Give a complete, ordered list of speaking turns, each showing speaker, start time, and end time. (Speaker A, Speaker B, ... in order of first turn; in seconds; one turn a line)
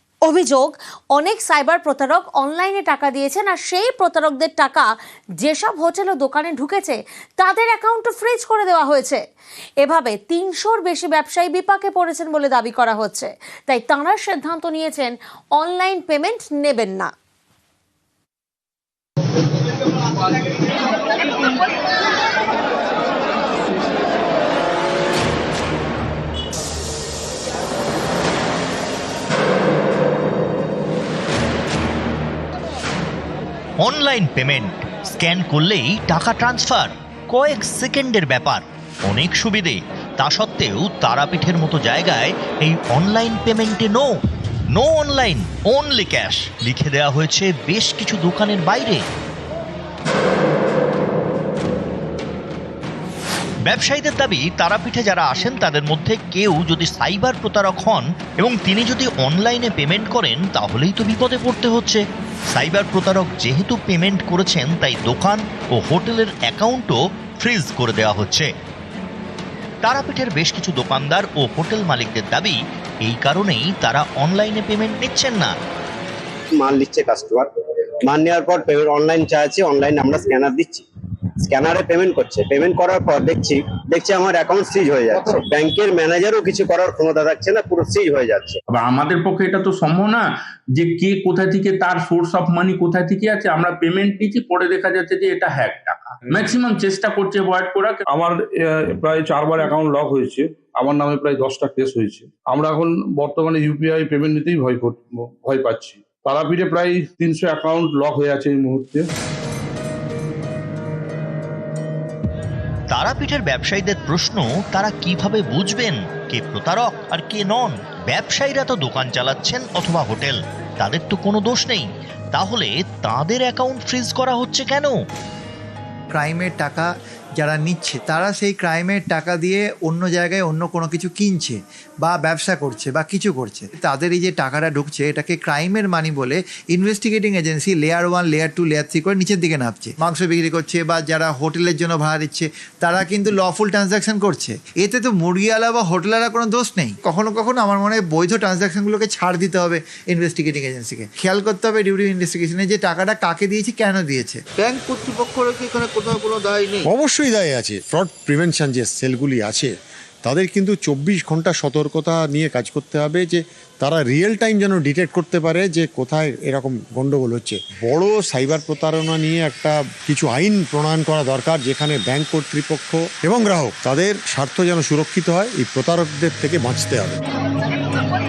Speaker A: 0.3-4.9
Speaker A: 5.4-9.2
Speaker A: 9.8-17.1
Speaker B: 33.8-44.1
Speaker B: 44.7-49.0
Speaker B: 53.6-62.0
Speaker B: 62.5-68.5
Speaker B: 69.8-75.5
Speaker C: 76.5-77.5
Speaker C: 78.0-80.9
Speaker C: 81.4-88.6
Speaker D: 88.7-98.0
Speaker E: 98.1-109.1
Speaker B: 112.9-124.9
Speaker F: 126.1-154.4
Speaker G: 154.6-156.9
Speaker H: 156.8-159.7
Speaker H: 160.2-177.2